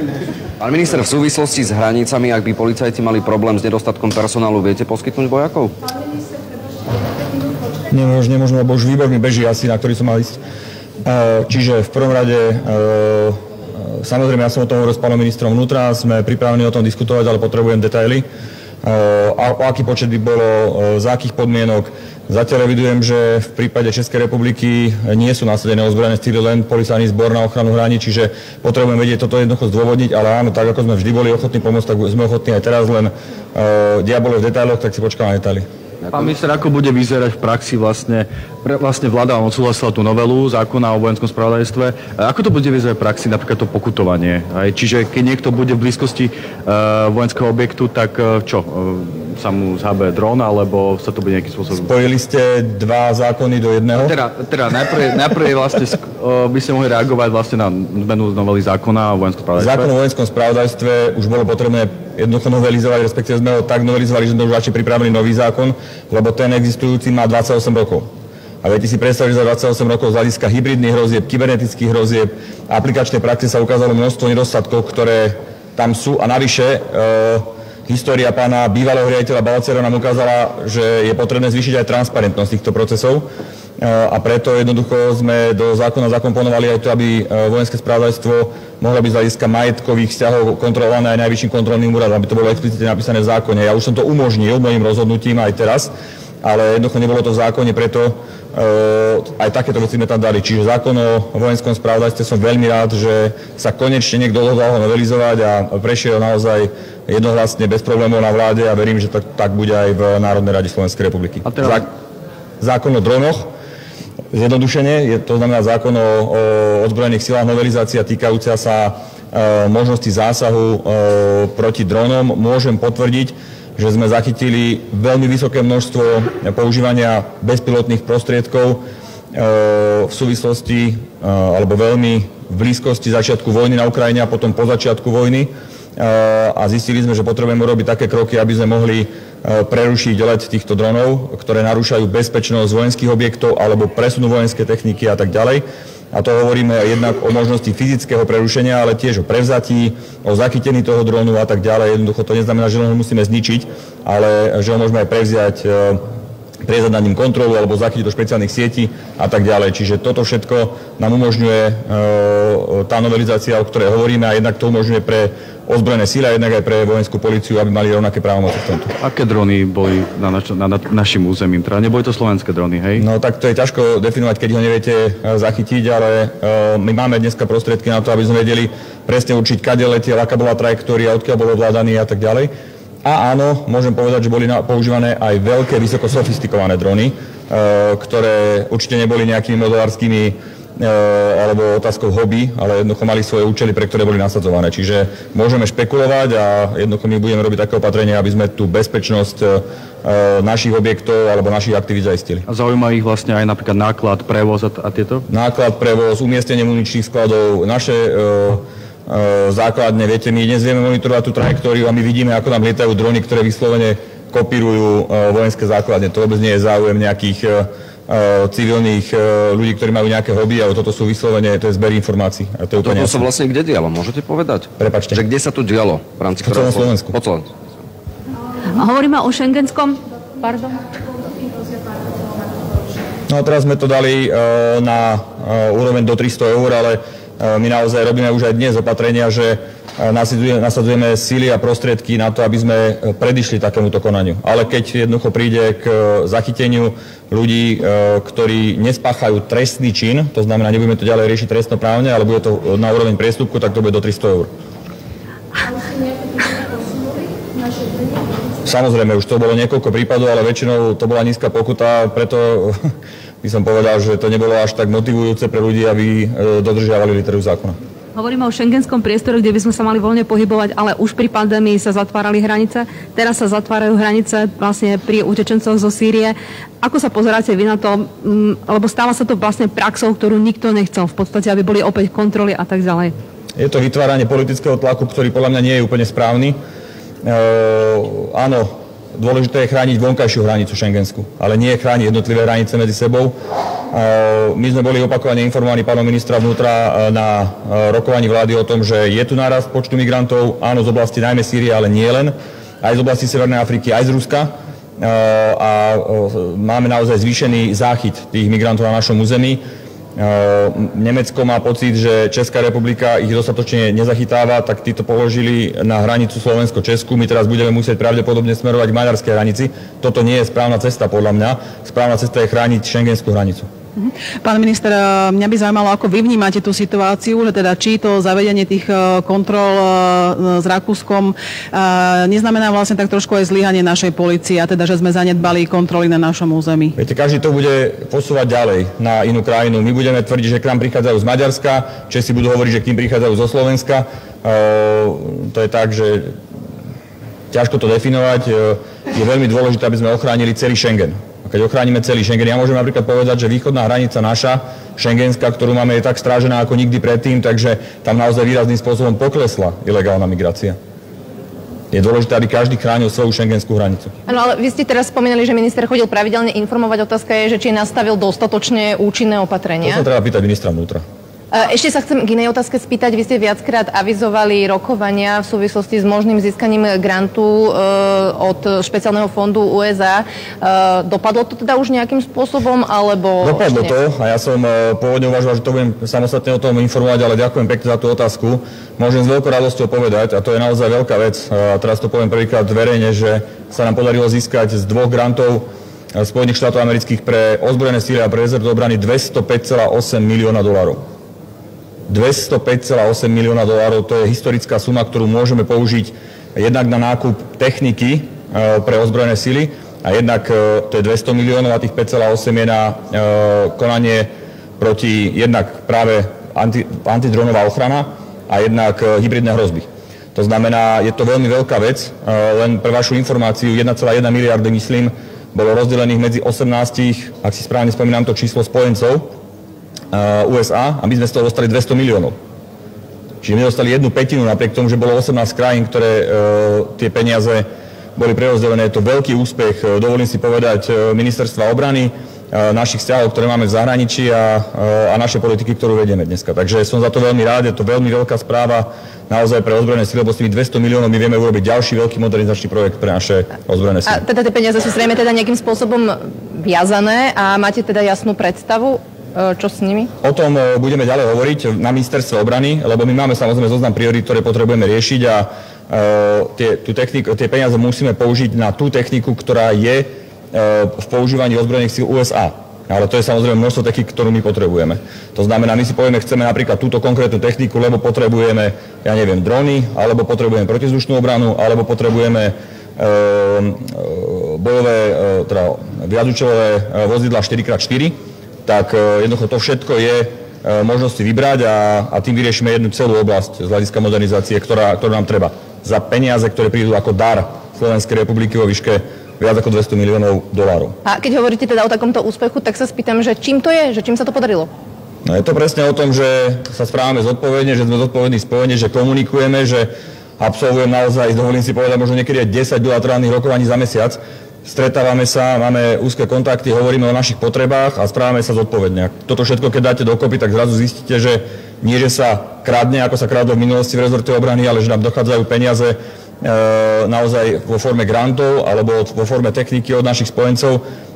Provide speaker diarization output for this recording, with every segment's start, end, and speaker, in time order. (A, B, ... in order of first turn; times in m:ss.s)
0:00.6-0:05.7 A
0:07.9-0:10.4 B
0:11.0-0:18.2 B
0:18.8-0:35.6 B
0:36.1-0:51.9 C
0:51.8-0:54.1 B
0:54.0-0:59.9 C
0:59.6-1:08.0 B
1:08.6-1:23.2 B
1:23.8-1:51.9 B
1:51.4-1:51.8 C
1:52.6-1:53.5 B
1:54.3-2:08.8 B
2:09.3-2:36.0 B
2:36.6-2:48.9 B
2:49.0-2:53.0 C
2:53.0-3:02.5 B
3:03.0-3:22.4 B
3:22.5-3:25.2 C
3:25.3-3:43.3 B
3:42.8-3:47.5 A
3:44.8-3:45.2 B
3:46.4-3:47.1 B
3:48.8-3:50.8 D
3:53.3-4:14.5 B
4:18.6-4:22.8 B
4:23.4-4:27.8 B
4:28.2-4:43.1 D
4:43.6-4:46.6 B
4:47.2-4:53.3 B
4:53.9-5:09.6 B
5:10.2-5:23.7 B
5:24.0-5:36.9 E
5:37.0-5:46.3 B
5:47.5-6:00.8 B
6:01.9-6:04.1 B
6:04.3-6:10.0 F
6:09.8-6:11.0 B
6:11.5-6:23.9 F
6:23.4-6:41.0 B
6:42.1-7:09.3 B
7:10.1-7:12.3 B
7:13.4-7:34.2 B
7:34.1-7:40.1 F
7:40.2-8:21.0 B
8:21.0-8:24.7 F
8:25.2-8:50.8 B